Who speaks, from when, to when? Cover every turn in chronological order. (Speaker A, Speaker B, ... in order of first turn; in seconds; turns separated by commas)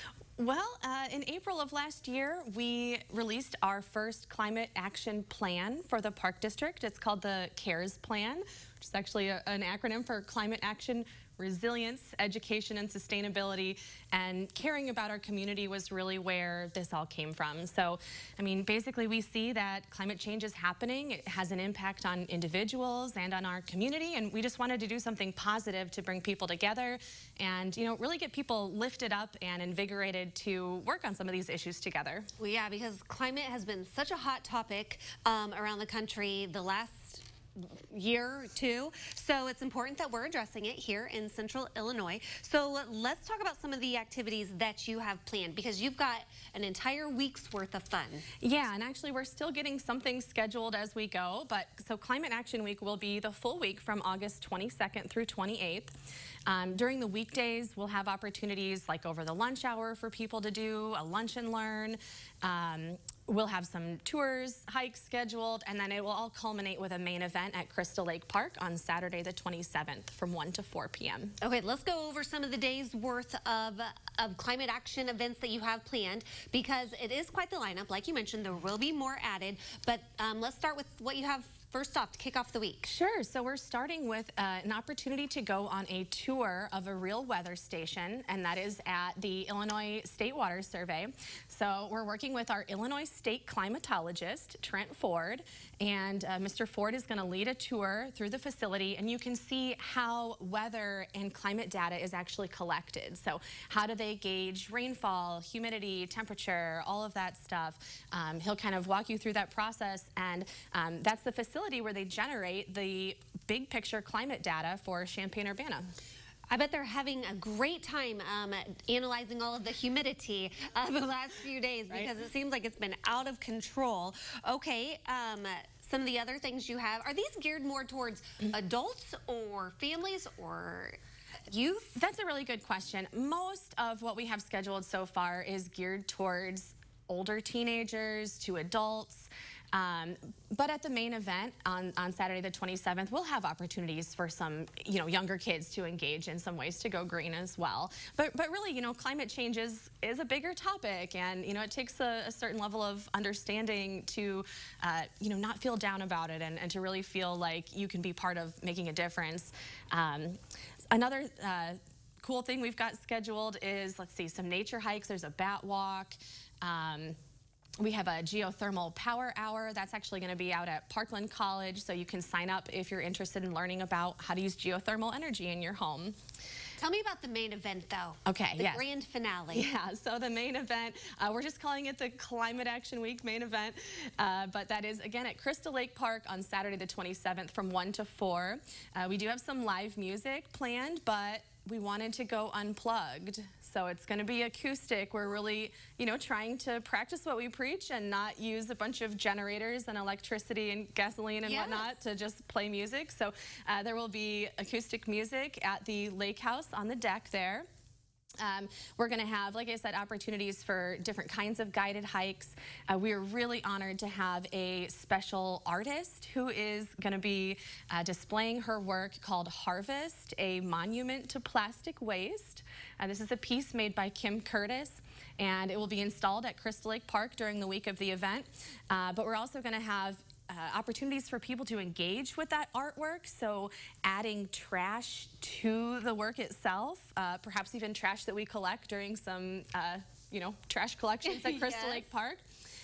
Speaker A: 0.4-32.3, Speaker B: 32.4-48.3, Speaker A: 48.4-55.9, Speaker A: 56.5-71.4, Speaker B: 71.4-82.9, Speaker A: 82.9-115.9, Speaker B: 116.5-132.0, Speaker A: 131.9-160.4, Speaker A: 160.9-167.2, Speaker A: 167.8-176.2, Speaker B: 176.8-179.7, Speaker A: 178.3-178.8, Speaker A: 179.5-207.7, Speaker B: 201.4-201.9, Speaker A: 208.4-242.4, Speaker B: 241.2-242.1